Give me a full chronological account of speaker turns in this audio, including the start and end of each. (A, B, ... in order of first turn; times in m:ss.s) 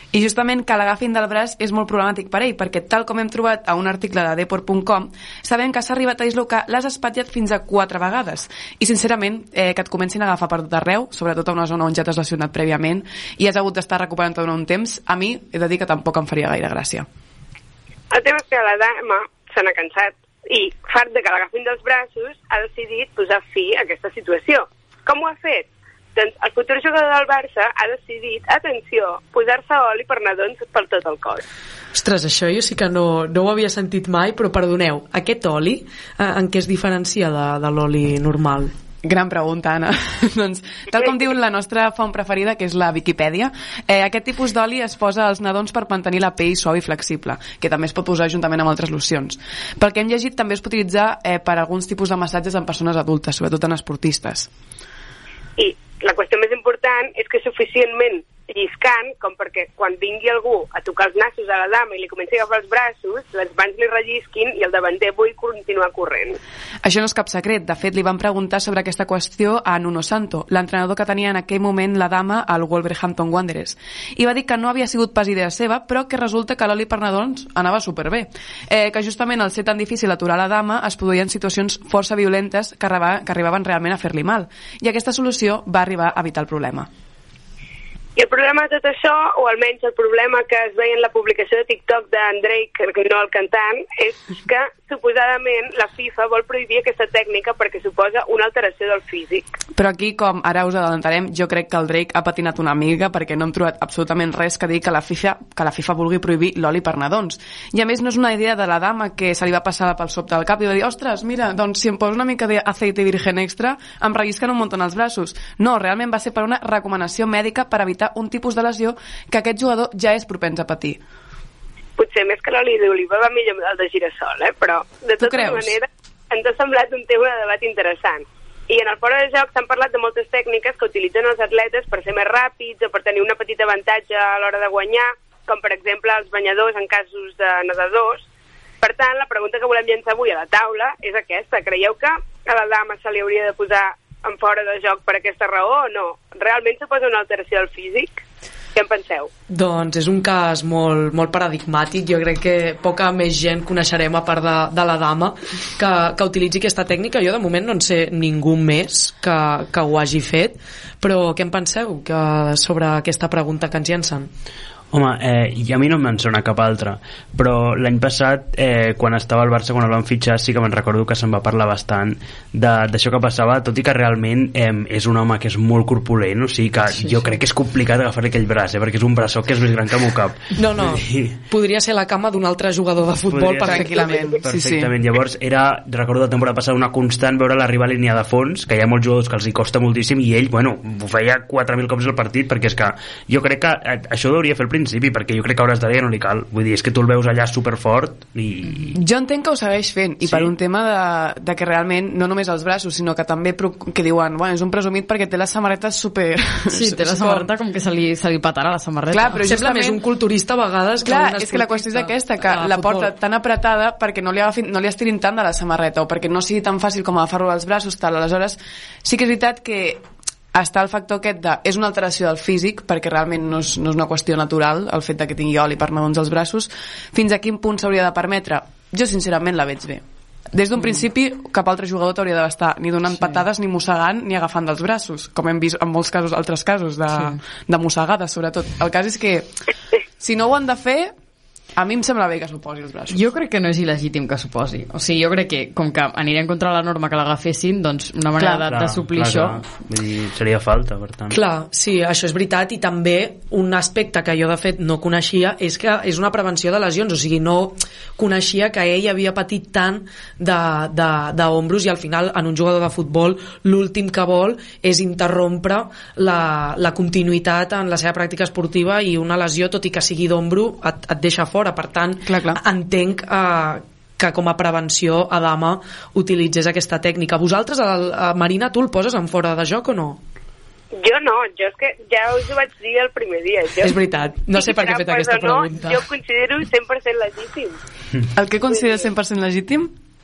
0:00.1-0:17.1 A
0:18.1-0:31.4 B
0:32.0-0:38.7 C
0:39.0-0:54.5 A
0:55.6-1:06.4 B
1:06.8-1:26.9 A
1:28.2-1:39.5 B
1:39.8-2:01.0 A
2:02.0-2:18.3 B
2:05.2-2:05.8 A
2:18.8-2:28.2 B
2:28.8-2:29.3 B
2:29.5-2:44.3 C
2:44.9-3:01.4 D
3:00.6-3:04.3 C
3:03.3-3:18.9 D
3:03.6-3:04.9 A
3:18.9-3:27.5 A
3:20.2-3:20.5 D
3:26.7-3:29.4 E
3:29.1-3:30.0 A
3:29.4-3:33.1 C
3:31.0-3:40.0 A
3:40.5-3:59.5 A
3:53.2-3:53.4 E
4:00.2-4:01.1 A
4:01.8-4:03.2 A
4:03.1-4:09.6 E
4:08.6-4:11.4 D
4:11.3-4:40.2 C
4:32.3-4:32.6 A
4:41.0-4:43.9 B
4:43.8-4:46.0 C
4:44.5-4:47.8 B
4:48.4-4:49.9 A
4:48.7-4:49.1 B